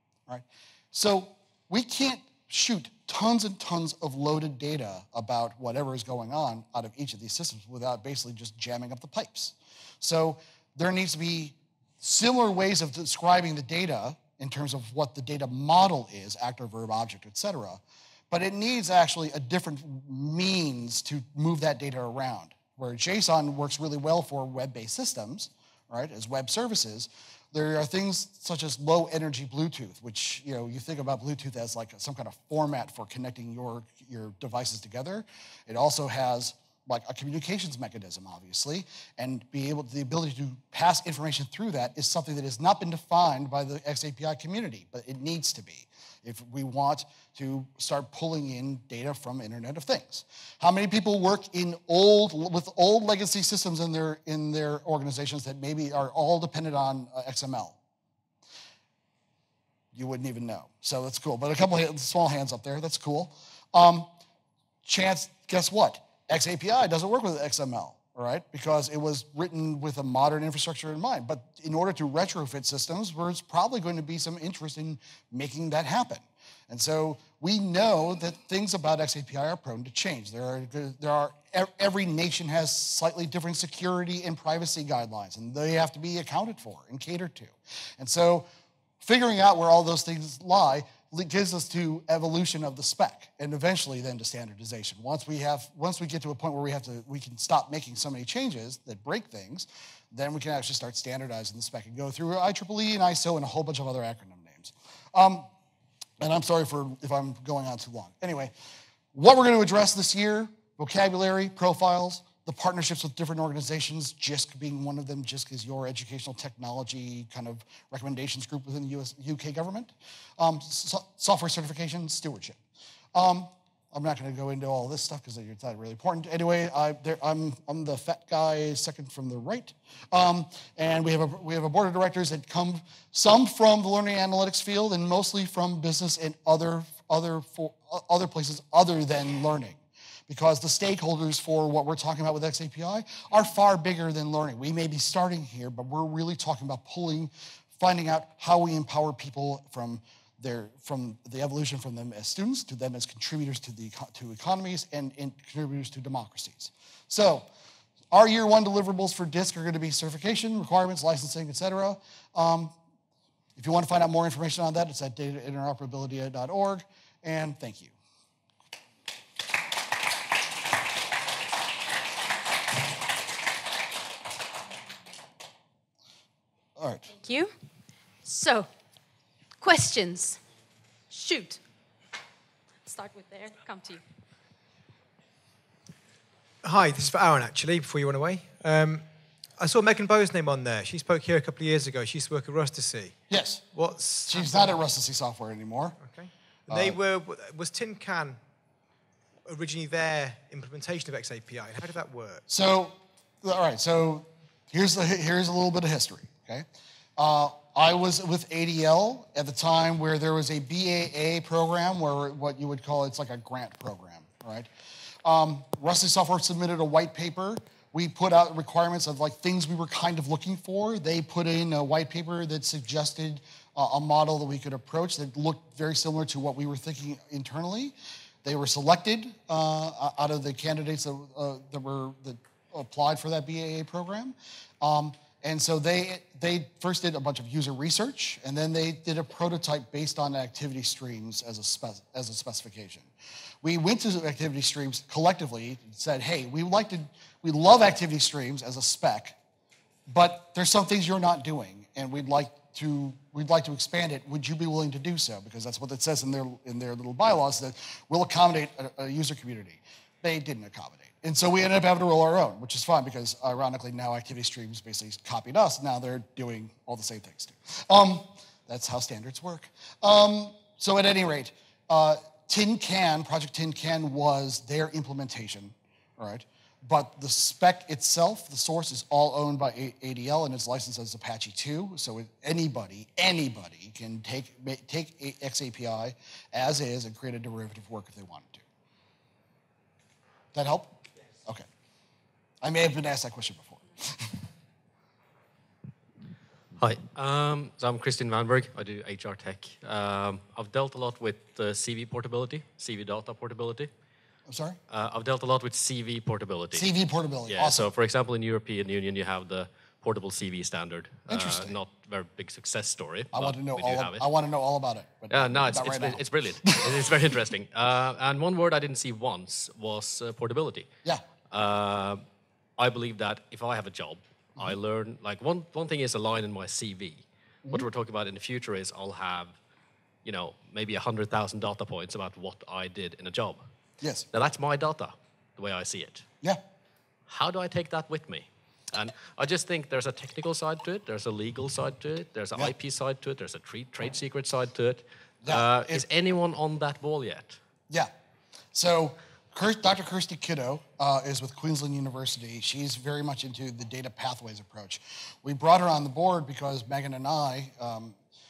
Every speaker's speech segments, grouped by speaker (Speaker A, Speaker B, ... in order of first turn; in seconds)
Speaker A: 0.3-57.8, 59.9-64.1, 64.8-88.5, 89.0-105.5, 106.2-108.5, 109.1-122.6, 123.1-157.5, 158.1-162.8, 163.6-167.9, 176.8-177.1, 193.3-193.7, 194.3-196.0, 196.7-197.0, 202.5-214.7, 215.2-243.1, 243.6-249.4, 250.1-288.6, 290.5-291.7, 292.6-294.4, 304.5-304.8, 306.7-307.9, 311.3-311.8, 313.3-317.4, 334.0-334.3, 345.4-346.1, 348.7-358.2
Speaker B: 177.2-177.5, 178.2-178.7, 179.6-180.4, 181.1-181.6, 182.9-184.0
Speaker C: 186.6-189.1, 189.6-193.2, 193.7-194.7, 196.0-198.4, 199.4-202.4
Speaker D: 296.8-303.9, 304.9-306.9, 307.5-314.3, 315.3-320.9, 321.5-322.2, 322.8-329.6, 330.2-333.6, 334.3-336.3, 337.3-347.6